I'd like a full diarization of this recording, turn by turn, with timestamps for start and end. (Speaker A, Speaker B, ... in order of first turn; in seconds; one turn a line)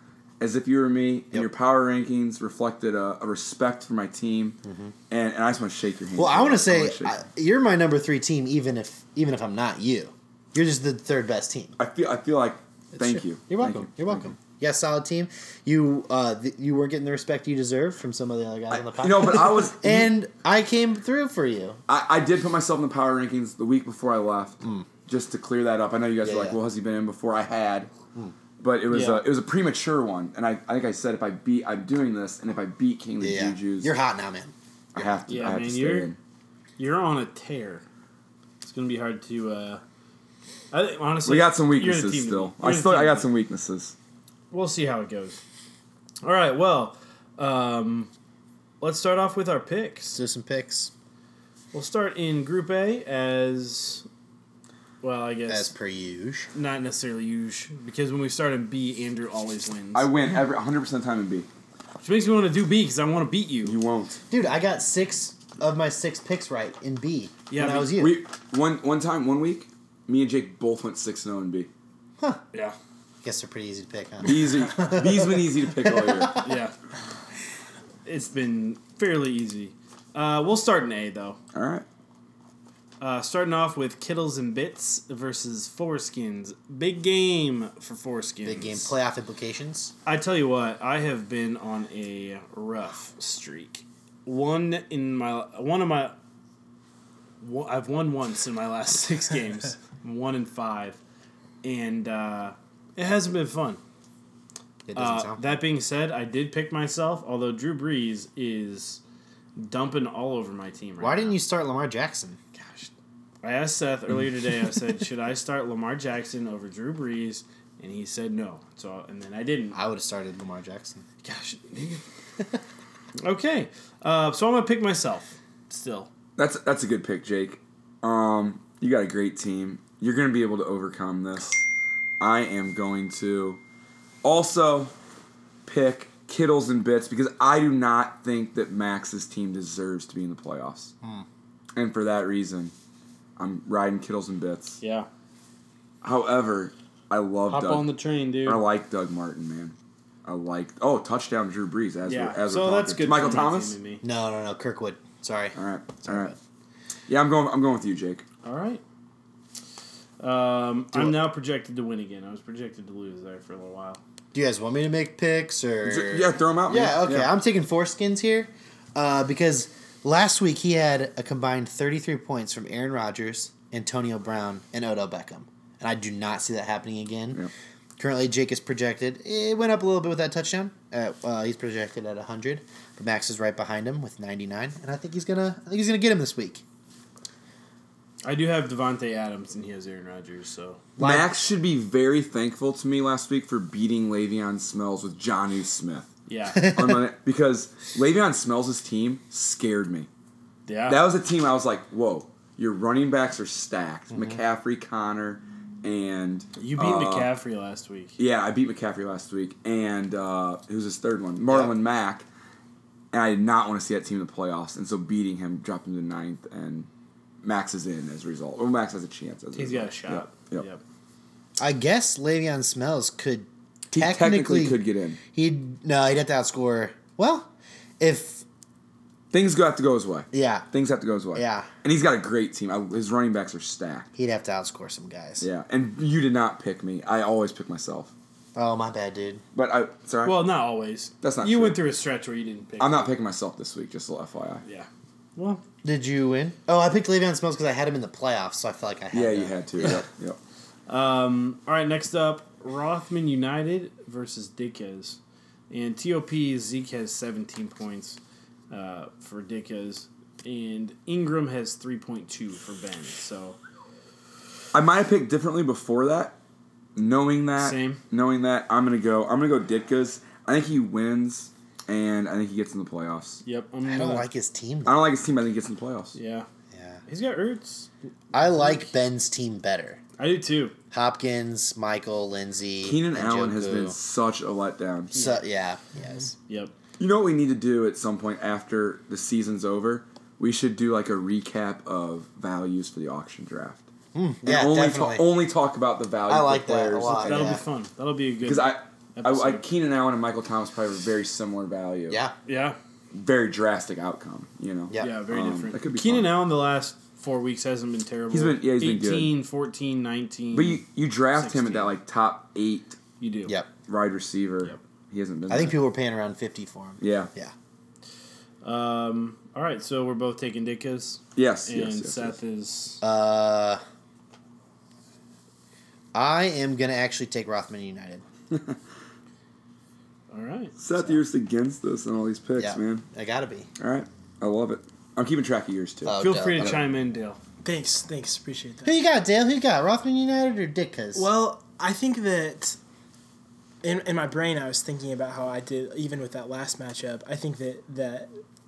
Speaker A: 0.4-4.6
Speaker B: 4.6-4.9
Speaker A: 5.1-7.1
Speaker B: 6.2-11.8
Speaker A: 11.8-14.3
Speaker B: 12.9-21.8
Speaker A: 18.7-20.1
Speaker A: 21.9-27.9
Speaker B: 26.2-26.6
Speaker A: 28.6-33.9
Speaker C: 28.9-29.2
Speaker B: 33.2-34.5
Speaker A: 34.9-36.2
Speaker C: 35.3-36.1
Speaker C: 36.8-37.8
Speaker C: 38.6-39.8
Speaker C: 40.7-43.3
Speaker A: 41.2-43.9
Speaker C: 44.5-45.4
Speaker C: 46.2-48.1
Speaker C: 48.8-50.1
Speaker B: 50.1-50.9
Speaker C: 51.7-54.0
Speaker C: 55.0-55.7
Speaker B: 55.5-56.5
Speaker C: 56.5-60.1
Speaker A: 59.9-61.5
Speaker C: 62.0-63.8
Speaker A: 63.6-64.2
Speaker B: 64.3-68.2
Speaker C: 67.5-68.0
Speaker A: 67.7-71.7
Speaker B: 73.2-76.4
Speaker A: 74.2-76.5
Speaker C: 76.3-76.7
Speaker C: 78.0-81.4
Speaker A: 81.5-81.8
Speaker C: 83.0-88.9
Speaker B: 88.4-89.9
Speaker C: 90.0-96.1
Speaker C: 97.4-101.0
Speaker C: 101.6-103.8
Speaker B: 104.8-105.5
Speaker C: 104.9-109.0
Speaker C: 109.5-111.4
Speaker B: 111.0-112.4
Speaker C: 112.5-112.9
Speaker C: 113.4-119.8
Speaker B: 119.7-121.0
Speaker C: 121.2-122.0
Speaker C: 123.2-126.1
Speaker A: 126.4-131.6
Speaker A: 132.2-133.6
Speaker A: 134.2-134.9
Speaker A: 135.6-140.9
Speaker A: 141.7-142.7
Speaker A: 143.4-144.8
Speaker C: 144.8-145.1
Speaker A: 146.0-147.9
Speaker C: 147.5-148.6
Speaker A: 148.4-149.7
Speaker A: 150.2-153.7
Speaker C: 152.1-154.0
Speaker B: 154.0-156.3
Speaker A: 155.6-156.3
Speaker A: 157.1-158.2
Speaker C: 158.4-158.8
Speaker C: 160.2-164.0
Speaker B: 164.3-177.4
Speaker A: 165.8-167.3
Speaker B: 178.0-186.6
Speaker C: 188.2-190.8
Speaker B: 191.0-191.3
Speaker A: 191.0-200.1
Speaker C: 196.3-196.8
Speaker C: 200.7-201.0
Speaker A: 200.9-207.3
Speaker B: 204.1-204.4
Speaker C: 206.6-208.2
Speaker A: 208.2-212.2
Speaker A: 213.1-216.9
Speaker A: 217.4-220.6
Speaker C: 219.5-220.8
Speaker B: 221.6-224.8
Speaker A: 223.9-225.2
Speaker B: 225.3-228.4
Speaker A: 229.3-234.1
Speaker B: 230.3-230.7
Speaker B: 231.3-231.7
Speaker B: 234.2-235.5
Speaker A: 235.4-238.1
Speaker B: 238.6-239.4
Speaker A: 239.5-240.5
Speaker C: 240.2-243.1
Speaker A: 241.2-241.8
Speaker A: 242.8-244.6
Speaker C: 244.6-245.6
Speaker B: 245.8-250.0
Speaker A: 249.1-250.4
Speaker C: 250.9-255.2
Speaker C: 255.7-258.2
Speaker C: 258.7-263.6
Speaker A: 264.7-266.4
Speaker A: 266.9-273.4
Speaker C: 267.6-268.0
Speaker C: 273.4-274.3
Speaker B: 273.9-275.0
Speaker A: 274.9-276.1
Speaker C: 276.1-276.5
Speaker B: 276.7-277.0
Speaker C: 277.1-277.9
Speaker B: 278.3-280.0
Speaker C: 278.4-278.8
Speaker C: 280.2-280.7
Speaker B: 280.9-283.9
Speaker A: 282.8-285.1
Speaker C: 285.1-285.4
Speaker B: 285.1-286.3
Speaker C: 286.5-286.7
Speaker A: 287.0-293.8
Speaker B: 294.1-295.2
Speaker A: 294.4-297.6
Speaker B: 296.3-297.6
Speaker C: 297.1-299.6
Speaker A: 298.4-302.2
Speaker B: 302.1-302.3
Speaker C: 302.4-302.8
Speaker A: 303.1-306.3
Speaker C: 305.0-310.8
Speaker A: 308.3-309.3
Speaker A: 310.5-313.0
Speaker C: 311.3-311.9
Speaker C: 313.2-313.5
Speaker B: 313.4-313.7
Speaker A: 313.9-315.8
Speaker B: 315.5-317.5
Speaker A: 317.0-317.3
Speaker C: 318.6-323.0
Speaker A: 321.4-322.4
Speaker B: 323.0-323.8
Speaker B: 326.1-328.2
Speaker A: 328.5-328.8
Speaker C: 330.3-330.7
Speaker A: 330.8-333.0
Speaker B: 332.6-333.7
Speaker A: 333.8-336.9
Speaker B: 336.0-336.7
Speaker C: 336.2-337.4
Speaker D: 337.6-338.9
Speaker B: 338.8-341.3
Speaker D: 341.1-342.8
Speaker D: 343.8-348.3